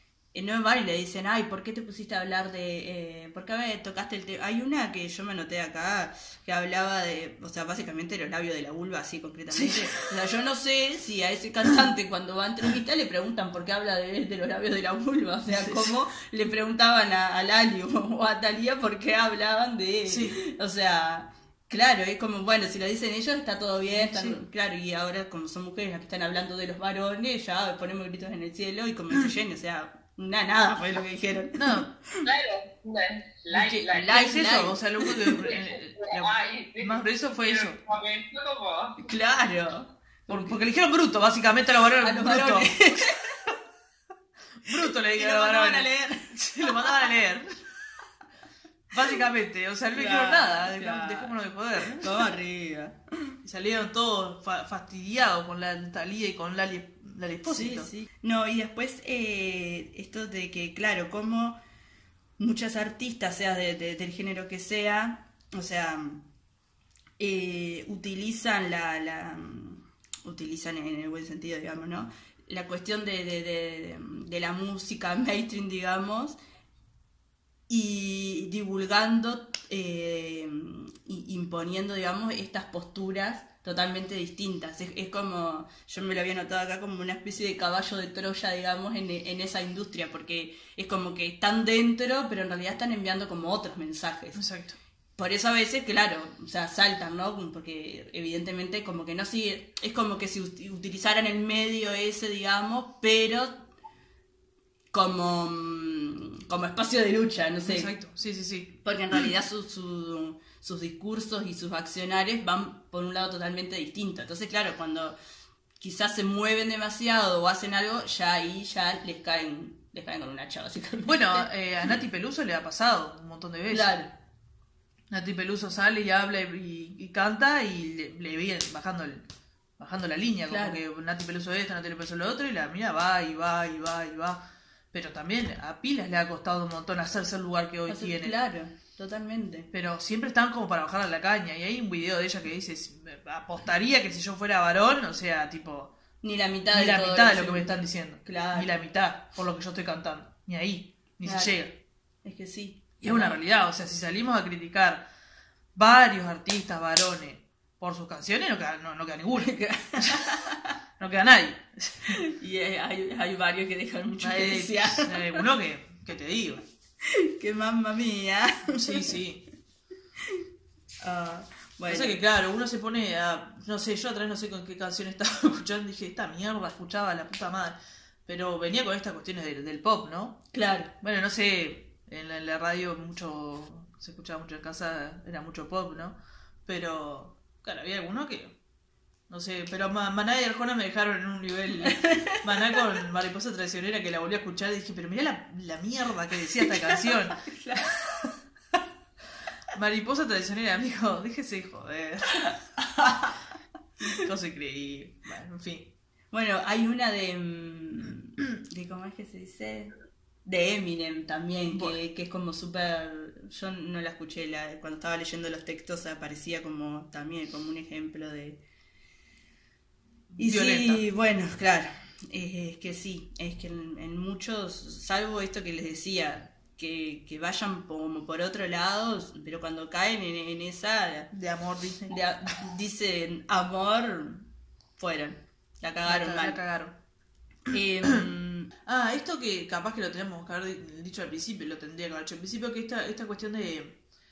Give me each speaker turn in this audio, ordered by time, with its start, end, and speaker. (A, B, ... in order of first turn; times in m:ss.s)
0:00.3-0:32.3 A
0:09.5-0:10.0 B
0:15.5-0:16.0 B
0:20.1-0:20.4 B
0:23.9-0:24.4 B
0:31.6-0:31.9 B
0:32.2-0:34.3 C
0:33.5-0:37.8 B
0:33.9-0:35.4 A
0:35.4-0:39.1 C
0:39.0-0:40.6 A
0:40.3-0:43.1 B
0:42.0-0:43.5 A
0:44.6-0:47.6 B
0:45.1-0:47.1 A
0:48.9-0:52.2 B
0:49.9-0:53.4 A
0:53.4-0:57.9 B
0:57.4-1:01.6 A
1:02.4-1:06.2 A
1:07.2-1:16.4 A
1:17.7-1:34.4 A
1:34.4-1:34.8 B
1:35.2-1:43.6 A
1:44.9-1:47.9 A
1:47.6-1:48.8 B
1:48.8-1:55.2 A
1:55.8-2:01.5 A
2:01.1-2:04.1 B
2:03.7-2:04.1 A
2:05.1-2:09.3 B
2:09.8-2:14.4 B
2:10.5-2:10.8 A
2:14.9-2:18.4 B
2:17.9-2:19.7 A
2:19.7-2:25.9 B
2:26.2-2:28.7 A
2:26.7-2:31.7 B
2:31.2-2:31.6 A
2:32.2-2:33.4 A
2:33.0-2:35.1 B
2:35.8-2:40.4 B
2:39.4-2:40.8 A
2:41.0-2:42.2 B
2:42.1-2:45.4 A
2:44.2-2:46.6 B
2:47.0-2:49.1 A
2:48.8-2:49.4 B
2:51.0-2:52.2 A
2:51.9-3:00.4 B
3:00.5-3:00.9 A
3:01.0-3:08.6 B
3:09.3-3:17.4 B
3:11.8-3:12.8 A
3:16.6-3:18.3 A
3:19.7-3:22.6 B
3:24.1-3:25.9 B
3:26.3-3:29.9 A
3:30.4-3:38.6 A
3:31.7-3:32.0 B
3:40.3-3:41.0 B
3:40.4-3:51.3 A
3:51.3-3:52.1 B
3:52.1-3:56.6 A
3:56.1-3:56.9 B
3:57.7-3:58.2 B
3:57.7-3:58.7 A
3:58.8-4:04.0 B